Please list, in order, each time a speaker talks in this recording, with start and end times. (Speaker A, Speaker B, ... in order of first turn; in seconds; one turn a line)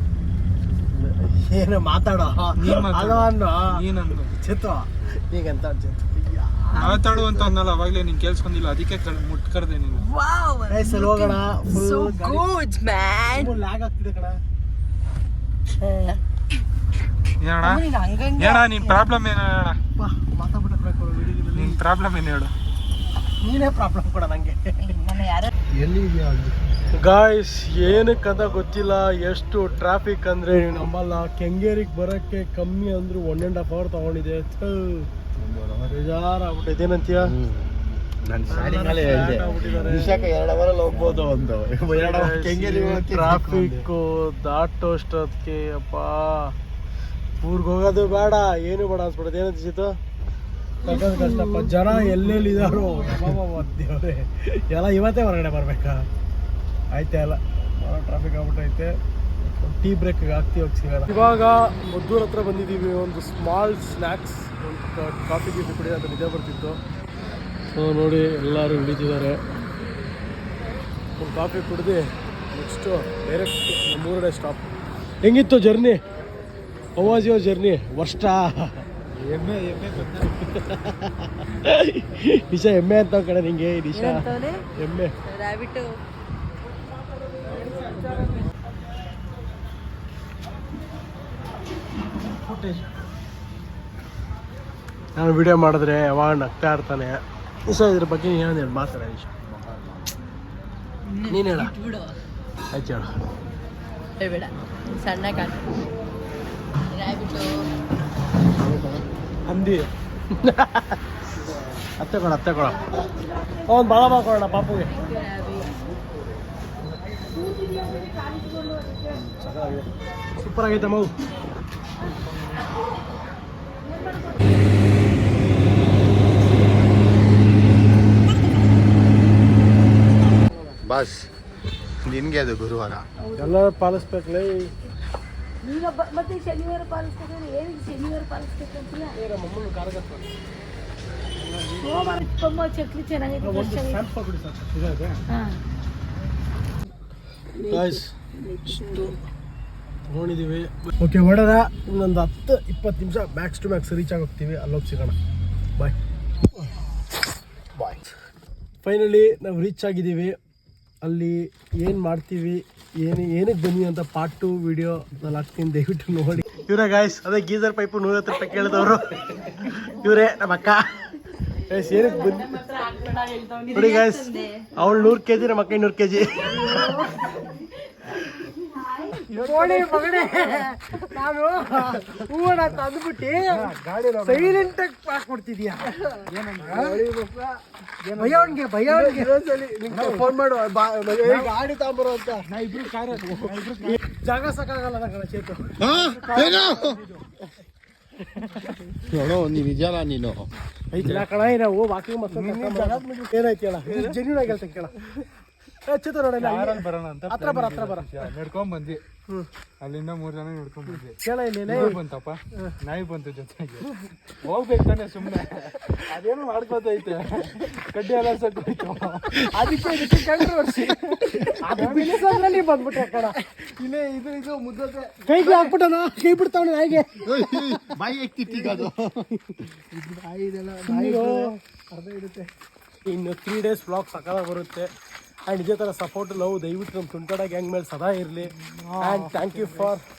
Speaker A: 0.9-7.3
Speaker B: 2.6-4.3
Speaker B: 6.7-10.0
Speaker C: 9.9-13.5
Speaker A: 10.7-12.4
Speaker A: 13.3-14.4
Speaker C: 15.8-16.2
Speaker B: 17.4-17.8
Speaker C: 17.6-19.1
Speaker B: 18.4-19.8
Speaker A: 19.9-21.8
Speaker B: 21.5-22.5
Speaker A: 23.4-24.9
Speaker C: 24.8-25.5
Speaker D: 25.8-26.6
Speaker A: 27.0-35.1
Speaker D: 35.4-35.8
Speaker A: 35.8-37.4
Speaker D: 37.4-37.7
Speaker D: 38.2-43.8
Speaker A: 38.5-40.3
Speaker A: 41.9-46.5
Speaker A: 47.4-49.9
Speaker A: 50.8-56.1
Speaker D: 52.7-53.0
Speaker A: 56.9-66.8
Speaker A: 67.7-69.4
Speaker A: 71.2-74.7
Speaker A: 75.2-76.0
Speaker A: 77.0-78.8
Speaker B: 79.2-80.3
Speaker A: 80.2-85.1
Speaker C: 84.0-84.6
Speaker C: 85.2-85.9
Speaker A: 92.4-93.1
Speaker A: 95.2-99.3
Speaker C: 101.0-102.2
Speaker A: 101.3-101.7
Speaker A: 102.7-103.1
Speaker C: 104.2-105.8
Speaker C: 106.9-107.5
Speaker B: 109.5-109.9
Speaker A: 110.4-111.0
Speaker A: 112.0-113.0
Speaker E: 113.0-114.1
Speaker A: 113.7-114.9
Speaker C: 114.9-115.7
Speaker E: 114.9-115.4
Speaker E: 117.3-119.2
Speaker A: 119.3-119.9
Speaker A: 120.4-121.1
Speaker E: 123.9-124.4
Speaker D: 130.8-131.2
Speaker D: 132.0-133.0
Speaker E: 133.2-133.5
Speaker A: 133.3-134.7
Speaker E: 135.6-139.1
Speaker A: 139.1-140.4
Speaker E: 141.7-144.0
Speaker A: 143.4-145.2
Speaker E: 145.3-145.6
Speaker E: 147.5-149.2
Speaker A: 147.7-148.1
Speaker A: 148.7-149.1
Speaker A: 150.1-155.2
Speaker A: 158.8-160.3
Speaker A: 161.0-172.5
Speaker C: 171.9-174.6
Speaker A: 173.7-177.0
Speaker C: 176.5-177.3
Speaker C: 178.6-179.1
Speaker B: 179.3-180.3
Speaker A: 179.3-183.7
Speaker B: 183.5-184.7
Speaker A: 184.2-186.0
Speaker B: 186.3-187.0
Speaker A: 186.6-187.3
Speaker D: 186.7-187.0
Speaker B: 188.0-188.6
Speaker A: 188.2-189.3
Speaker D: 188.8-192.5
Speaker B: 189.9-190.3
Speaker A: 191.2-191.9
Speaker B: 192.5-194.0
Speaker A: 193.8-195.8
Speaker D: 195.8-197.0
Speaker B: 196.0-197.0
Speaker D: 199.1-200.5
Speaker A: 200.9-205.1
Speaker B: 201.0-201.3
Speaker B: 202.3-203.1
Speaker A: 205.8-208.2
Speaker B: 206.4-209.0
Speaker B: 209.8-211.2
Speaker A: 210.9-212.0
Speaker B: 211.7-222.3
Speaker A: 219.5-220.5
Speaker A: 221.3-223.3
Speaker D: 223.5-225.7
Speaker A: 225.2-228.9
Speaker D: 227.2-229.2
Speaker D: 229.7-232.5
Speaker A: 230.8-231.6
Speaker A: 233.1-234.9
Speaker A: 235.5-240.0
Speaker B: 238.6-239.9